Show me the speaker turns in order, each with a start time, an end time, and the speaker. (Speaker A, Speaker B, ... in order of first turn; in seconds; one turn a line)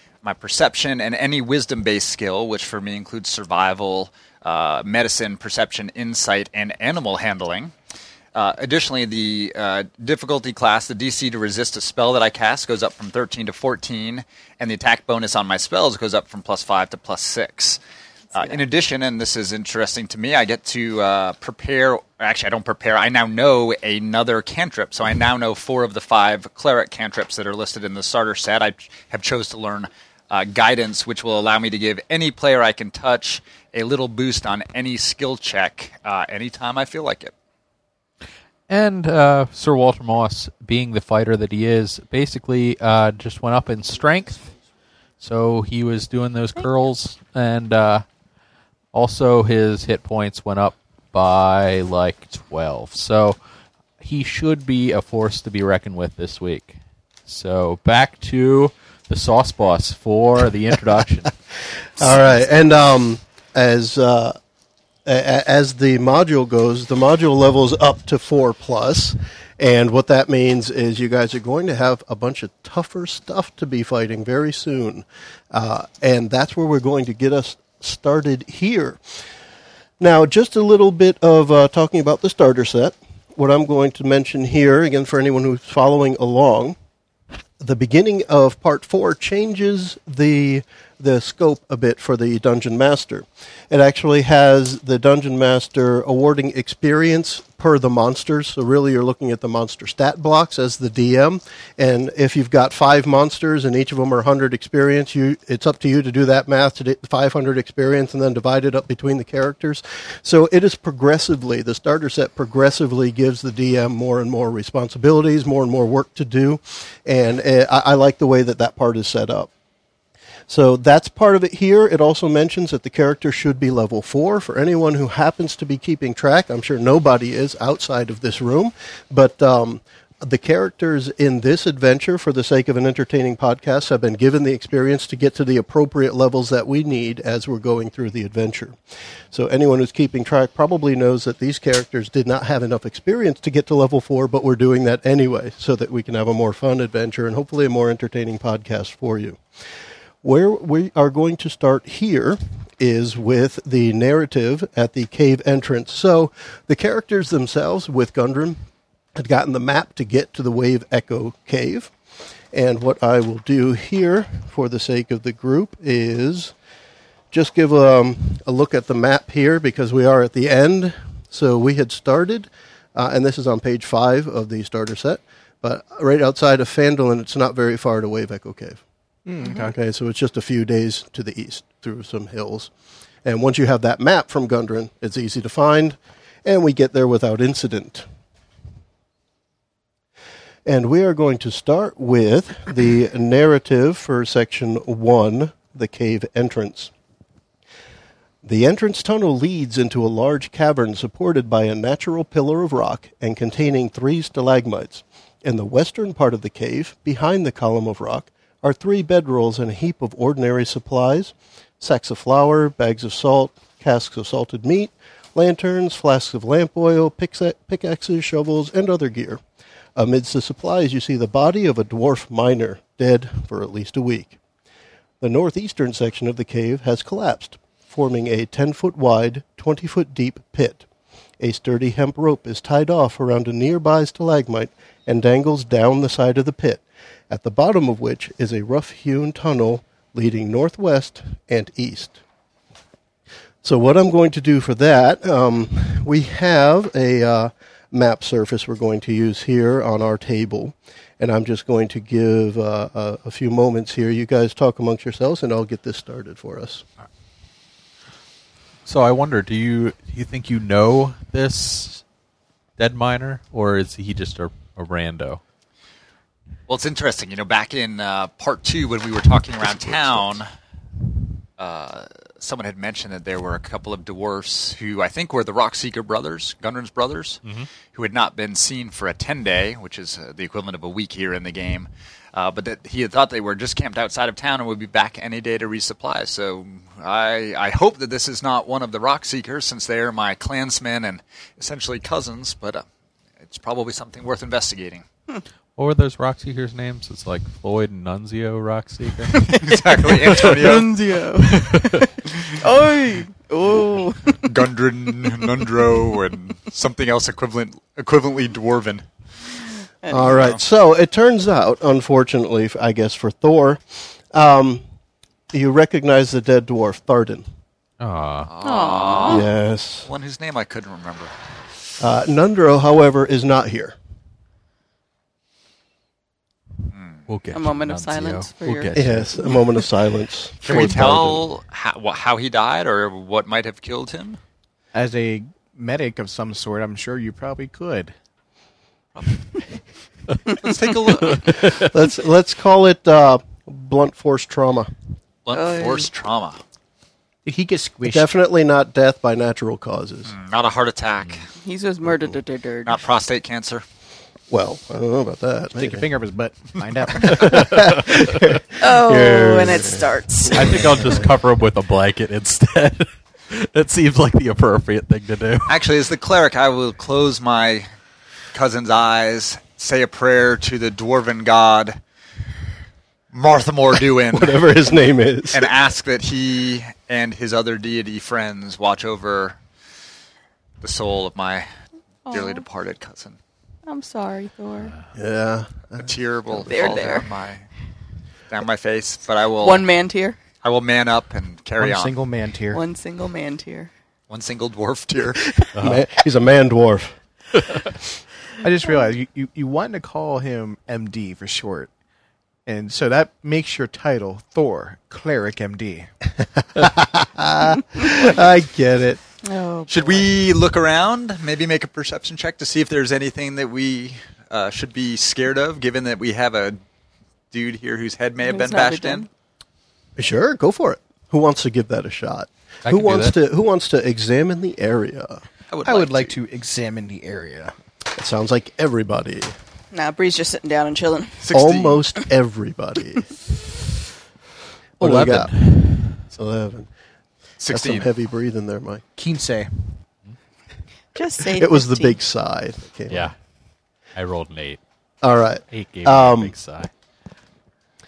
Speaker A: 0.2-7.7
Speaker A: 8.3-17.8
Speaker A: 18.3-37.3
Speaker B: 38.7-44.5
Speaker B: 45.2-48.0
Speaker B: 48.9-53.4
Speaker B: 54.0-56.8
Speaker B: 57.3-61.3
Speaker C: 62.0-64.4
Speaker C: 65.0-79.0
Speaker C: 80.0-86.8
Speaker C: 87.6-119.5
Speaker C: 120.5-138.8
Speaker C: 139.3-149.4
Speaker C: 150.2-158.6
Speaker C: 159.1-161.9
Speaker C: 162.5-166.5
Speaker C: 167.3-178.8
Speaker D: 179.2-179.7
Speaker C: 179.4-182.7
Speaker C: 183.2-188.1
Speaker C: 190.7-196.9
Speaker C: 198.4-219.4
Speaker C: 219.9-224.4
Speaker C: 225.2-230.8
Speaker C: 231.4-242.2
Speaker C: 243.6-256.8
Speaker B: 258.9-262.0
Speaker B: 262.8-265.4
Speaker A: 266.7-270.5
Speaker A: 271.6-292.8
Speaker A: 293.4-295.0
Speaker B: 295.8-299.4
Speaker E: 299.3-304.5
Speaker A: 299.4-300.9
Speaker B: 301.5-302.0
Speaker A: 304.4-309.0
Speaker E: 310.0-310.4
Speaker C: 310.1-314.8
Speaker A: 310.2-310.6
Speaker C: 315.5-317.4
Speaker B: 318.0-318.5
Speaker A: 318.4-319.5
Speaker E: 318.6-319.5
Speaker C: 319.2-320.1
Speaker A: 320.1-321.3
Speaker C: 322.0-323.9
Speaker B: 327.3-329.4
Speaker E: 327.5-329.0
Speaker C: 328.9-331.4
Speaker A: 330.6-334.4
Speaker D: 334.9-338.1
Speaker A: 340.5-341.6
Speaker C: 341.4-344.9
Speaker B: 341.5-341.8
Speaker A: 345.4-346.6
Speaker E: 345.5-346.1
Speaker D: 347.4-348.3
Speaker C: 348.0-350.3
Speaker A: 350.3-351.5
Speaker E: 351.6-353.0
Speaker A: 352.8-353.8
Speaker C: 354.5-356.1
Speaker D: 355.8-358.0
Speaker C: 357.2-360.1
Speaker B: 357.3-358.4
Speaker E: 358.8-361.2
Speaker B: 360.5-365.8
Speaker C: 360.6-361.2
Speaker A: 365.7-367.9
Speaker A: 368.5-372.0
Speaker A: 373.3-374.7
Speaker C: 373.9-375.7
Speaker A: 375.5-379.6
Speaker A: 380.8-381.7
Speaker E: 382.3-382.6
Speaker A: 382.3-383.4
Speaker E: 383.9-384.9
Speaker C: 385.1-387.1
Speaker A: 385.9-387.6
Speaker E: 386.7-387.2
Speaker A: 388.5-389.9
Speaker E: 389.6-390.4
Speaker A: 390.6-392.1
Speaker D: 391.8-392.8
Speaker E: 392.7-393.9
Speaker A: 394.3-395.6
Speaker C: 395.6-397.1
Speaker B: 395.8-396.0
Speaker D: 398.6-401.9
Speaker D: 402.6-406.1
Speaker C: 406.6-409.2
Speaker E: 407.7-408.3
Speaker E: 409.4-410.3
Speaker A: 409.9-416.8
Speaker A: 417.5-419.3
Speaker E: 418.4-419.3
Speaker C: 420.2-425.4
Speaker B: 422.9-423.4
Speaker A: 425.7-426.4
Speaker D: 425.8-427.7
Speaker C: 428.1-429.5
Speaker E: 429.9-431.4
Speaker A: 431.4-432.0
Speaker C: 431.5-433.3
Speaker C: 435.0-436.9
Speaker B: 435.0-436.2
Speaker A: 437.6-438.1
Speaker C: 437.7-439.0
Speaker D: 439.1-439.9
Speaker E: 441.1-442.1
Speaker C: 441.4-443.3
Speaker B: 443.1-443.3
Speaker B: 444.1-444.8
Speaker C: 445.2-446.6
Speaker B: 445.7-446.9